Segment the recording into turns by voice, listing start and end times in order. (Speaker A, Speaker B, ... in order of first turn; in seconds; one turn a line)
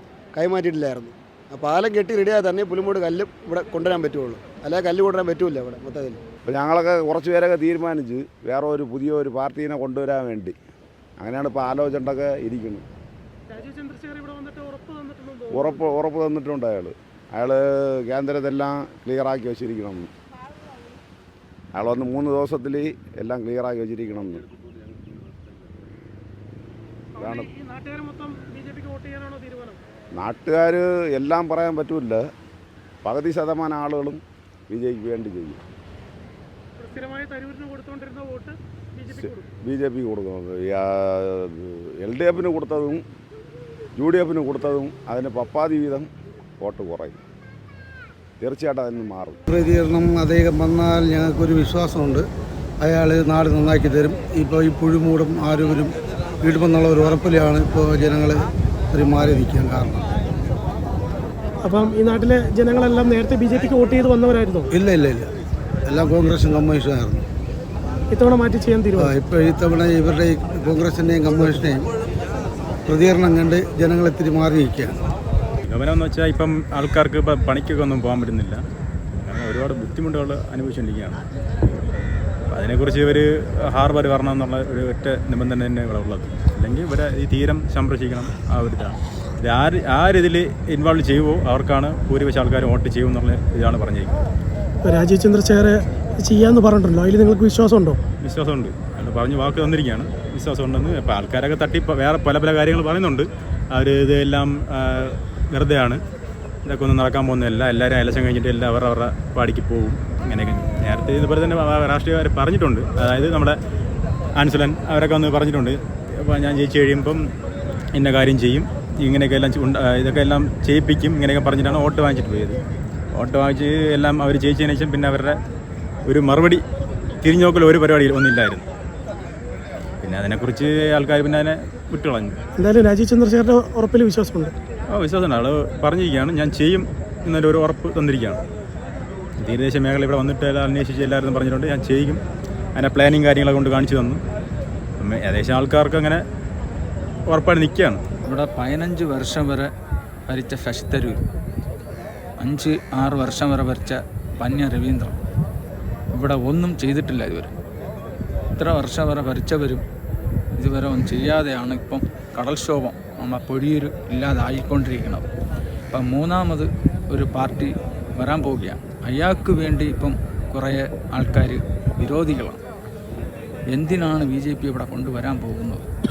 Speaker A: 0.3-6.2
Speaker B: 6.5-10.6
Speaker B: 11.2-12.8
Speaker C: 13.5-15.8
Speaker B: 15.5-20.1
Speaker B: 21.8-24.5
Speaker B: 27.2-27.5
Speaker C: 27.2-29.8
Speaker B: 30.2-32.2
Speaker B: 33.0-35.6
Speaker C: 36.8-39.4
Speaker B: 39.2-43.0
Speaker B: 44.0-46.1
Speaker B: 46.6-47.2
Speaker B: 48.4-49.4
Speaker D: 49.5-52.3
Speaker D: 52.8-60.1
Speaker C: 61.6-64.7
Speaker D: 64.8-65.3
Speaker D: 65.9-67.3
Speaker C: 68.1-69.2
Speaker D: 69.0-71.9
Speaker D: 72.9-75.0
Speaker E: 75.7-78.6
Speaker E: 79.2-81.2
Speaker E: 82.5-94.2
Speaker C: 94.8-98.0
Speaker E: 98.2-106.0
Speaker E: 106.7-113.6
Speaker E: 114.4-117.2
Speaker E: 118.0-122.6
Speaker E: 123.1-125.4
Speaker E: 126.1-126.6
Speaker E: 127.2-128.7
Speaker E: 130.0-132.3
Speaker C: 132.6-134.5
Speaker E: 134.9-138.4
Speaker E: 139.4-142.2
Speaker E: 142.8-144.2
Speaker E: 145.0-146.2
Speaker E: 147.3-148.0
Speaker F: 148.3-149.7
Speaker F: 150.3-151.2
Speaker F: 152.4-155.1
Speaker F: 156.1-157.5
Speaker F: 158.6-159.8
Speaker F: 160.6-165.2
Speaker F: 165.9-172.6
Speaker F: 173.7-175.8